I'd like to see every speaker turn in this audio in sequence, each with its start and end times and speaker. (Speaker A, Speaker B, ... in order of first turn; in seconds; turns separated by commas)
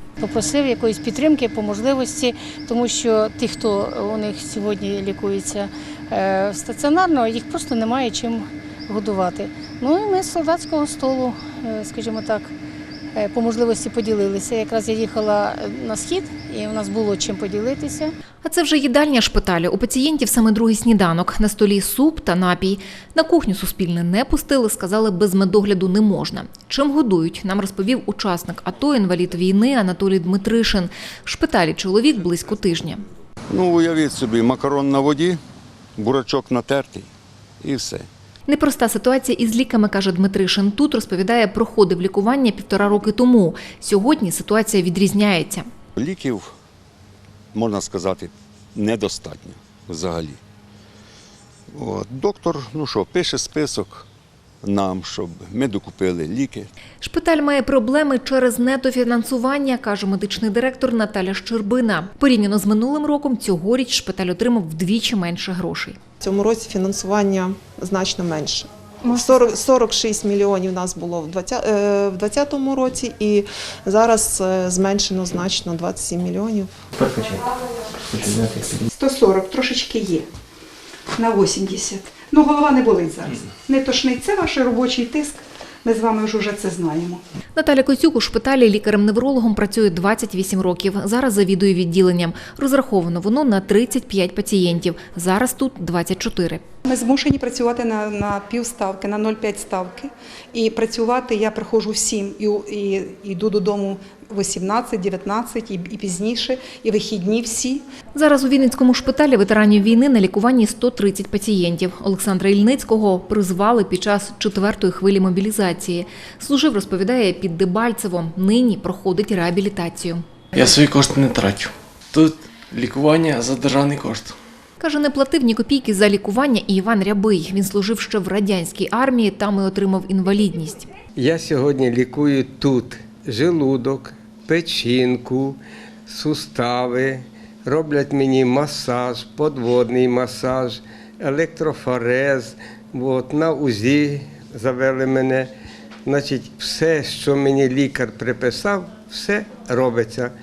Speaker A: 0.2-12.5, Speaker A: 13.2-18.1, Speaker B: 18.4-33.0, Speaker C: 33.5-35.4, Speaker C: 36.0-37.1, Speaker C: 37.6-38.1, Speaker B: 38.5-45.7, Speaker C: 46.0-46.5, Speaker C: 47.5-50.4, Speaker C: 51.7-54.1, Speaker C: 54.6-56.7, Speaker B: 57.0-66.0, Speaker D: 66.2-77.5, Speaker E: 78.9-80.3, Speaker E: 81.2-87.2, Speaker B: 87.6-96.6, Speaker E: 96.8-107.8, Speaker B: 108.2-120.2, Speaker F: 120.5-124.4, Speaker B: 124.8-130.9, Speaker G: 131.2-145.5, Speaker G: 146.1-150.3